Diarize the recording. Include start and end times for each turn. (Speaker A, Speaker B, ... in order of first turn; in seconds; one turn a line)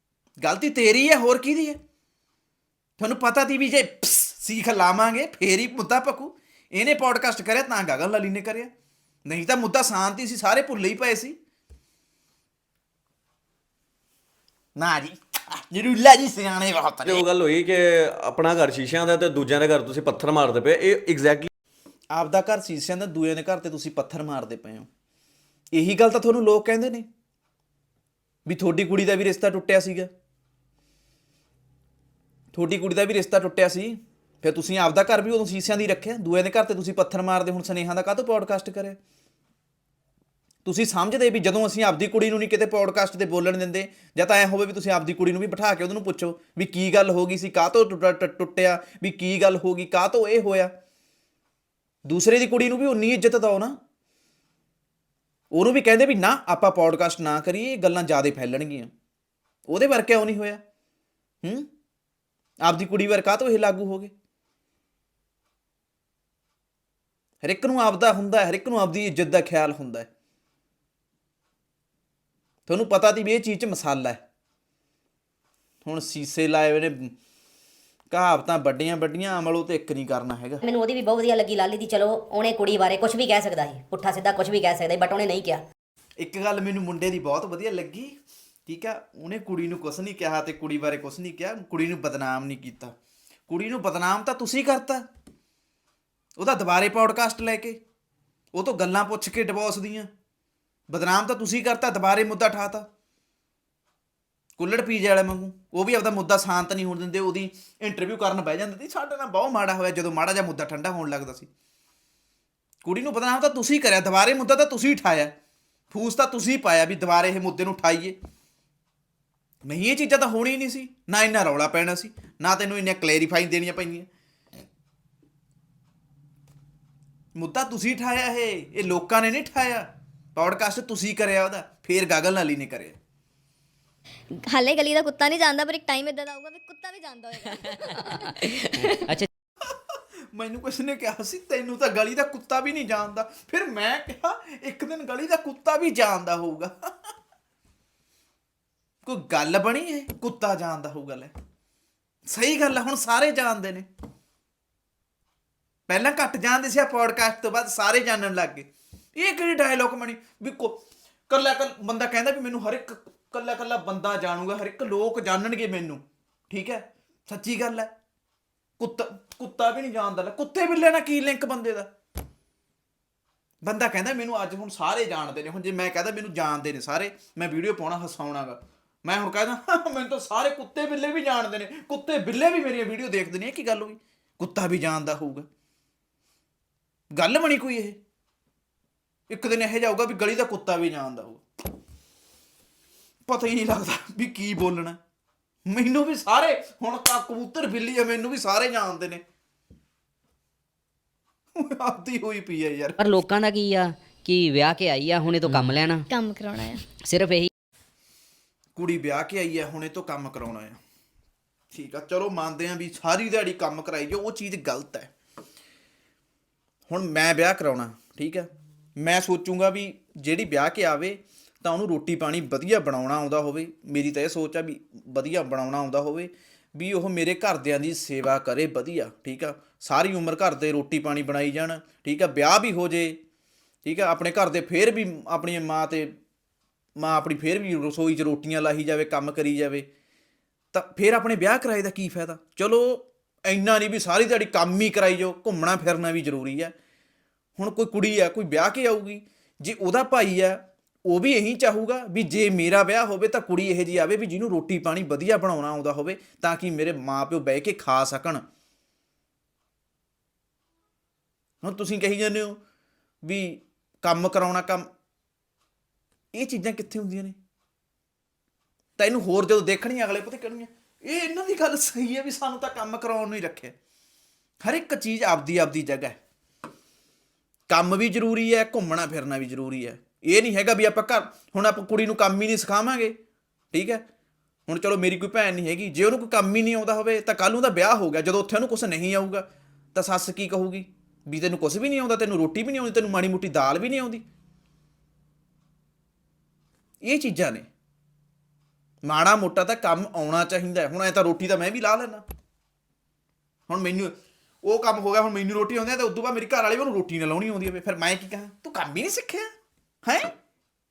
Speaker A: 0.4-1.8
Speaker A: 3.0-8.7
Speaker A: 9.2-11.3
Speaker A: 14.8-17.2
Speaker B: 17.1-21.5
Speaker A: 22.1-24.9
Speaker A: 25.7-27.1
Speaker A: 28.4-30.1
Speaker A: 32.5-39.0
Speaker A: 40.6-50.7
Speaker A: 52.0-53.8
Speaker A: 55.5-58.9
Speaker A: 59.7-60.6
Speaker A: 61.4-61.7
Speaker A: 62.6-64.1
Speaker A: 67.4-70.1
Speaker A: 72.7-74.2
Speaker A: 75.8-77.1
Speaker A: 78.1-80.6
Speaker C: 80.6-85.6
Speaker A: 86.2-88.1
Speaker A: 88.7-92.9
Speaker A: 93.5-95.0
Speaker A: 96.4-97.8
Speaker A: 98.5-100.1
Speaker A: 100.9-102.8
Speaker A: 104.6-111.5
Speaker A: 112.8-115.3
Speaker A: 115.9-118.2
Speaker A: 119.6-124.1
Speaker A: 127.3-133.0
Speaker D: 134.3-139.0
Speaker C: 138.8-139.3
Speaker A: 140.3-146.9
Speaker A: 149.0-151.3
Speaker A: 152.3-153.8
Speaker A: 155.9-167.9
Speaker A: 168.8-171.9
Speaker A: 173.6-185.4
Speaker A: 187.1-188.0
Speaker A: 189.3-191.4
Speaker A: 193.3-195.0
Speaker A: 195.7-199.2
Speaker A: 201.6-203.0
Speaker C: 203.0-206.1
Speaker D: 206.1-206.8
Speaker C: 207.0-207.5
Speaker A: 208.7-210.8
Speaker A: 211.7-215.1
Speaker A: 216.9-233.2
Speaker A: 233.8-236.1
Speaker A: 237.0-239.8
Speaker A: 240.7-246.7
Speaker A: 247.6-258.4
Speaker A: 261.6-262.6
Speaker A: 263.2-264.9
Speaker A: 266.3-267.4
Speaker A: 269.0-273.7
Speaker A: 274.6-276.1
Speaker A: 277.7-283.1
Speaker A: 283.7-284.0
Speaker A: 284.7-294.2
Speaker A: 297.0-297.7
Speaker A: 299.0-302.2
Speaker A: 303.7-309.5
Speaker A: 310.0-310.3